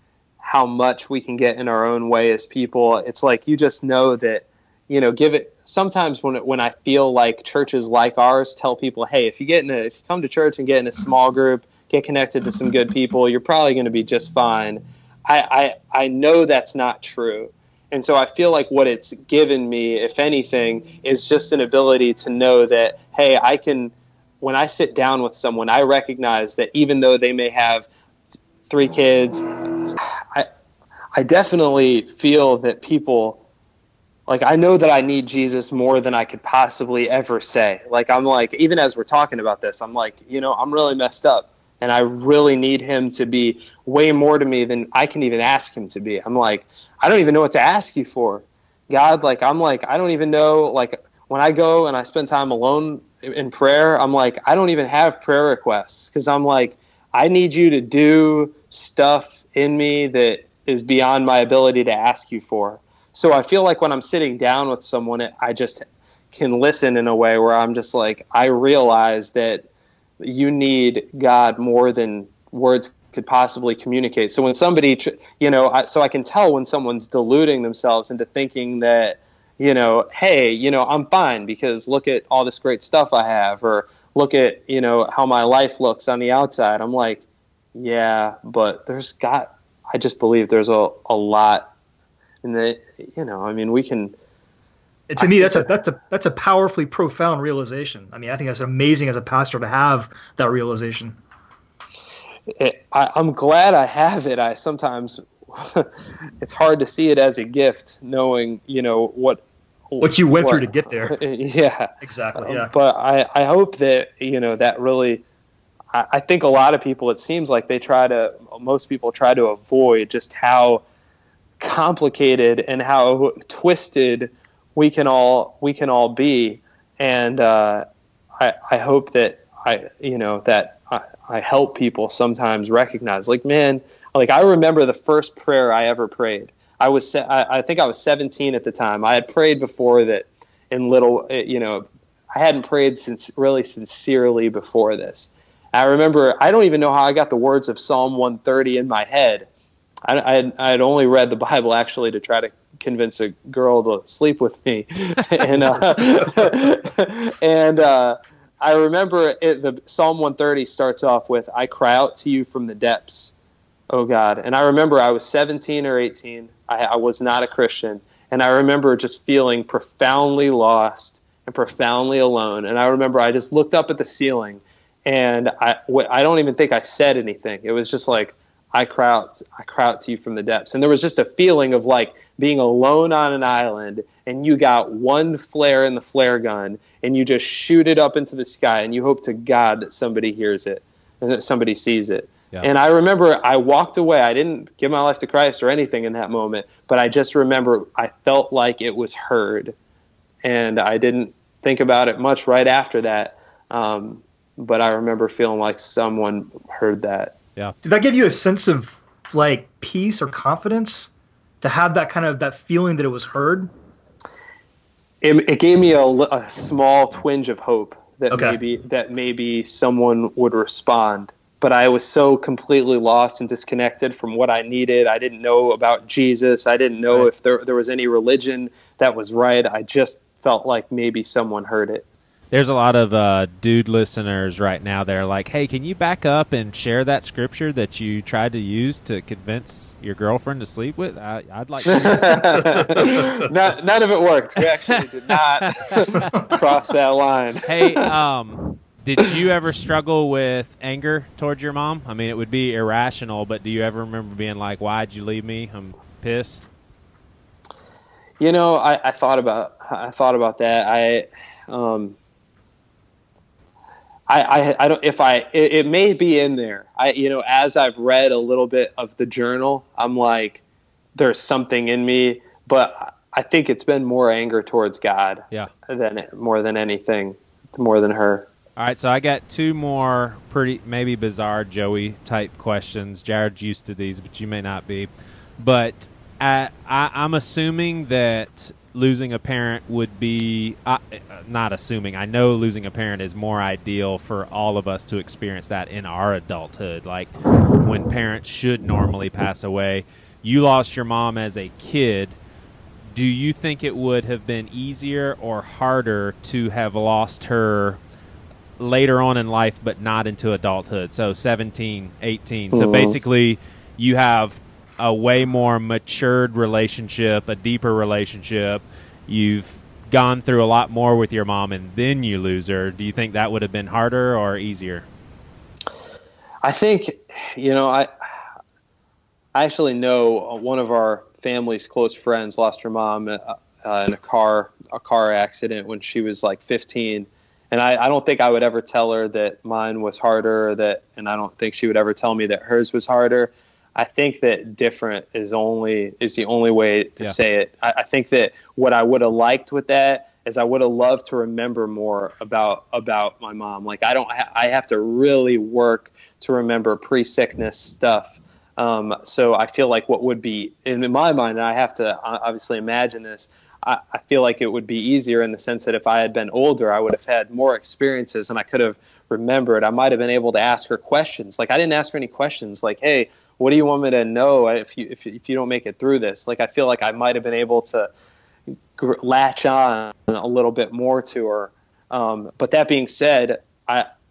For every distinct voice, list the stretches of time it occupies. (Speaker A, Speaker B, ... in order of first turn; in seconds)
Speaker A: 0.4-27.9, 28.7-30.5, 31.1-33.4, 34.3-69.7, 70.2-87.2, 87.7-91.7, 92.4-94.1, 95.2-95.7, 102.6-105.9, 106.4-115.2, 115.9-120.8, 121.6-127.8, 128.4-149.5, 150.0-163.3, 163.9-199.7, 200.4-207.3, 215.2-232.0, 241.9-248.1, 258.4-262.1, 264.3-270.6, 271.1-278.5, 312.7-313.2, 326.6-328.1, 329.5-378.1, 379.0-384.1
Speaker B: 95.1-101.2, 110.0-111.2, 112.0-112.7, 207.8-213.7, 218.3-218.6
Speaker C: 232.5-243.2, 245.6-246.5, 247.7-256.7, 278.8-302.4, 303.1-308.0, 308.8-325.1